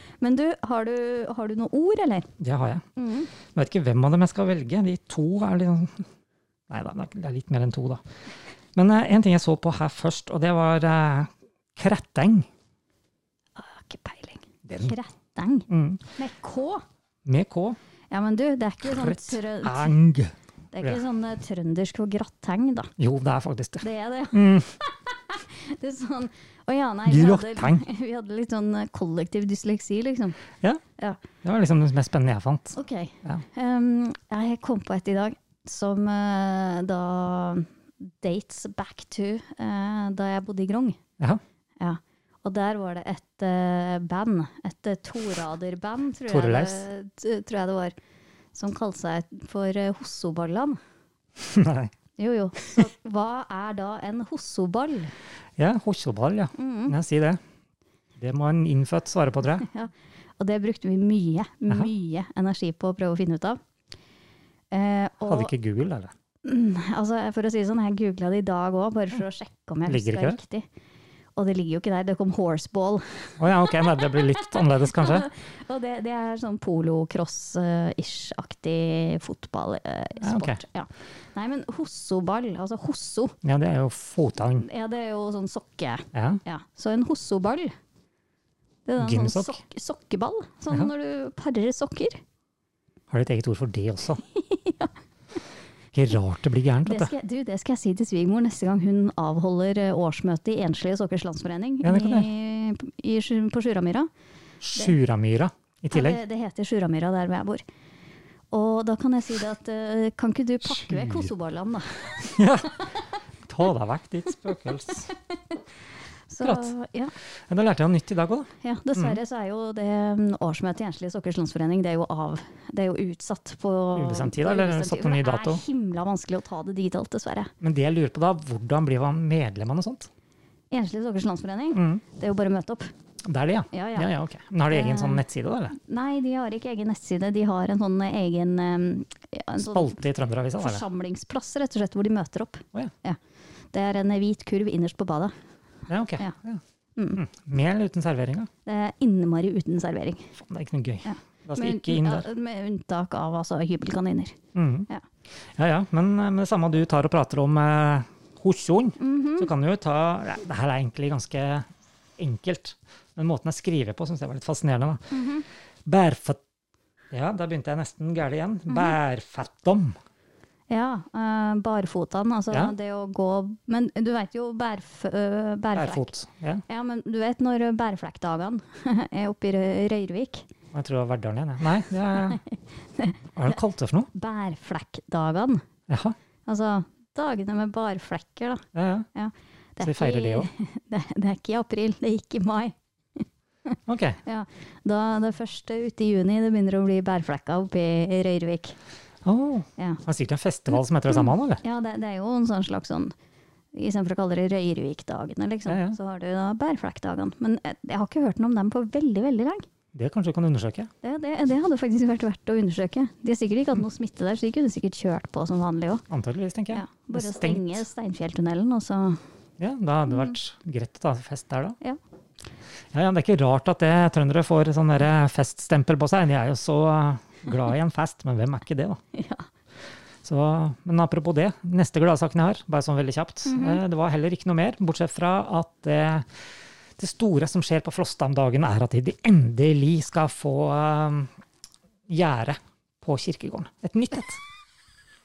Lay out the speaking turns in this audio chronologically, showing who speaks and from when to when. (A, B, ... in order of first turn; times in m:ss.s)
0:00.2-0:02.3 A
0:02.4-0:02.8 B
0:03.0-0:03.3 A
0:03.5-0:06.0 B
0:06.7-0:08.0 B
0:08.7-0:12.5 B
0:13.6-0:16.8 A
0:14.6-0:14.9 B
0:15.7-0:16.0 B
0:17.2-0:17.8 B
0:18.1-0:19.9 A
0:18.8-0:21.0 B
0:20.7-0:22.9 A
0:23.0-0:24.7 B
0:23.8-0:30.4 A
0:27.0-0:27.8 B
0:31.4-0:33.4 B
0:32.7-0:41.0 A
0:41.8-0:47.9 A
0:46.3-0:46.8 B
0:48.5-0:50.8 A
0:51.4-0:51.9 B
0:52.2-0:55.1 A
0:55.6-0:57.4 B
0:56.5-0:56.9 A
0:58.2-0:59.7 B
0:59.6-1:03.6 A
1:04.7-1:05.5 A
1:05.2-1:06.1 B
1:06.4-1:10.7 A
1:09.8-1:10.4 B
1:11.4-1:23.4 A
1:13.4-1:15.3 B
1:20.2-1:20.6 B
1:23.4-1:24.6 B
1:24.6-1:27.8 A
1:26.1-1:26.4 B
1:28.8-1:32.2 A
1:29.0-1:29.6 B
1:33.1-1:34.2 B
1:34.2-1:34.9 A
1:35.9-1:37.1 B
1:36.8-1:44.1 A
1:41.8-1:42.3 B
1:44.6-1:46.2 B
1:45.9-1:47.6 A
1:48.5-1:52.3 A
1:50.7-1:51.3 B
1:52.2-1:52.8 B
1:53.4-1:55.1 B
1:55.1-1:55.6 A
1:56.3-1:57.1 A
1:56.4-1:56.7 B
1:57.5-1:59.2 B
1:58.6-2:07.5 A
2:03.9-2:05.6 B
2:07.6-2:10.1 B
2:10.7-2:12.9 A
2:11.7-2:12.0 B
2:13.2-2:15.7 B
2:13.7-2:14.1 A
2:14.7-2:20.0 A
2:19.6-2:20.8 B
2:20.6-2:23.2 A
2:23.7-2:25.3 A
2:25.9-2:26.6 B
2:27.0-2:27.2 A
2:27.1-2:28.5 B
2:28.6-2:30.3 A
2:30.4-2:32.2 B
2:31.0-2:34.4 A
2:34.5-2:34.9 B
2:35.5-2:45.1 B
2:39.0-2:39.5 A
2:45.1-2:45.4 A
2:45.8-2:46.4 B
2:47.1-2:50.0 B
2:48.7-2:49.0 A
2:50.7-2:56.1 A
2:55.7-2:56.6 B
2:56.7-3:00.5 A
3:00.7-3:02.4 B
3:02.1-3:03.2 A
3:03.3-3:04.1 B
3:04.1-3:05.6 A
3:05.9-3:06.2 B
3:06.4-3:18.8 A
3:08.7-3:09.1 B
3:09.8-3:10.5 B
3:13.9-3:14.2 B
3:19.2-3:21.6 B
3:21.1-3:23.1 A
3:23.7-3:29.7 A
3:25.7-3:26.0 B
3:29.9-3:30.9 B
3:31.0-3:36.0 A
3:36.1-3:37.8 B
3:36.7-3:39.2 A
3:39.6-3:41.8 B
3:40.1-3:40.3 A
3:42.9-3:49.0 B
3:49.1-3:49.5 A
3:50.2-3:56.3 B
3:53.4-3:53.8 A
3:57.0-4:01.3 B
4:02.1-4:04.4 B